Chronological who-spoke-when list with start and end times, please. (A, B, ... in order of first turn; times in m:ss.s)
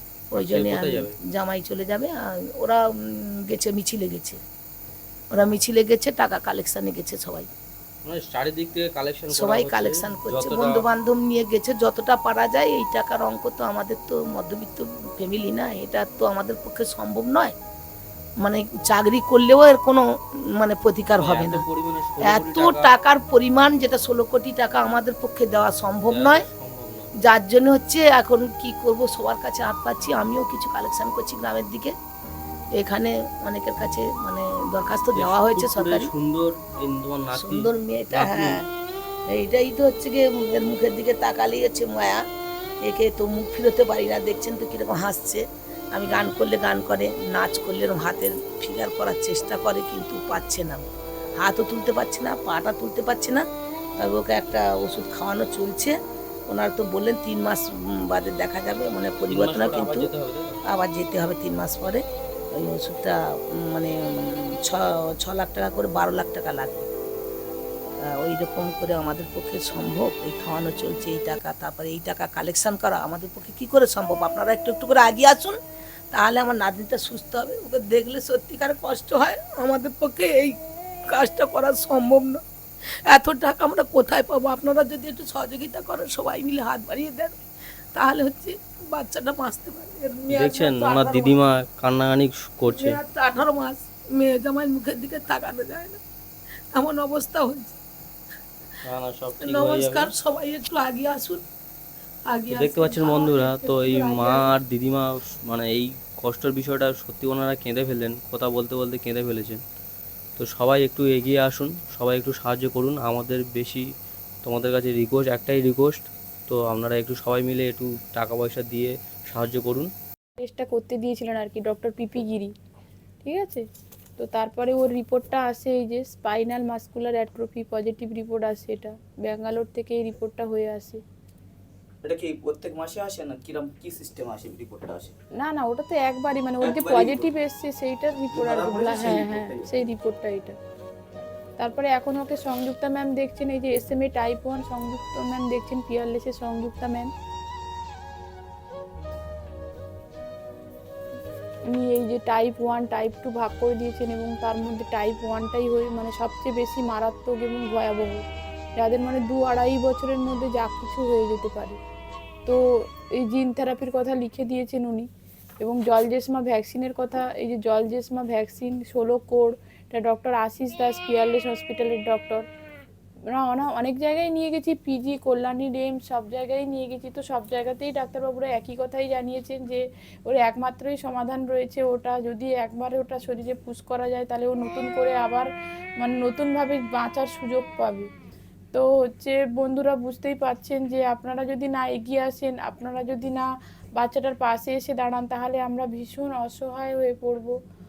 0:00.3-0:04.4 A
0:00.3-0:01.2 B
0:05.3-0:07.5 A
0:08.0-0:10.9 B
0:09.3-0:17.6 A
0:18.4-0:21.6 A
0:21.2-0:23.0 B
0:22.2-0:26.4 A
0:26.1-0:27.1 B
0:27.2-0:31.9 A
0:32.8-0:36.1 A
0:35.2-0:38.6 B
0:37.3-0:38.7 A
0:39.3-0:42.2 A
0:42.8-0:50.9 A
0:46.1-0:46.4 B
0:51.4-0:53.4 A
0:54.0-0:56.0 A
0:56.5-1:00.1 A
0:59.3-1:00.6 B
1:00.7-1:02.0 A
1:02.6-1:06.9 A
1:08.0-1:15.6 A
1:16.1-1:20.6 A
1:21.1-1:22.4 A
1:23.1-1:27.4 A
1:27.9-1:31.4 A
1:30.3-1:33.0 B
1:32.7-1:36.0 A
1:36.7-1:37.8 A
1:38.9-1:40.1 B
1:39.4-1:41.4 A
1:42.3-1:44.5 A
1:42.5-1:49.6 B
1:50.4-1:53.9 B
1:54.4-1:59.9 B
2:00.4-2:02.5 C
2:03.2-2:03.6 C
2:04.2-2:11.0 C
2:12.0-2:15.2 D
2:15.4-2:20.6 C
2:16.6-2:17.3 D
2:18.3-2:19.7 D
2:21.6-2:27.1 C
2:31.7-2:38.2 C
2:38.8-2:41.8 C
2:43.2-2:45.1 C
2:45.6-2:52.4 C
2:53.3-3:05.5 C
3:06.0-3:08.1 C
3:08.7-3:13.5 C
3:14.0-3:17.5 C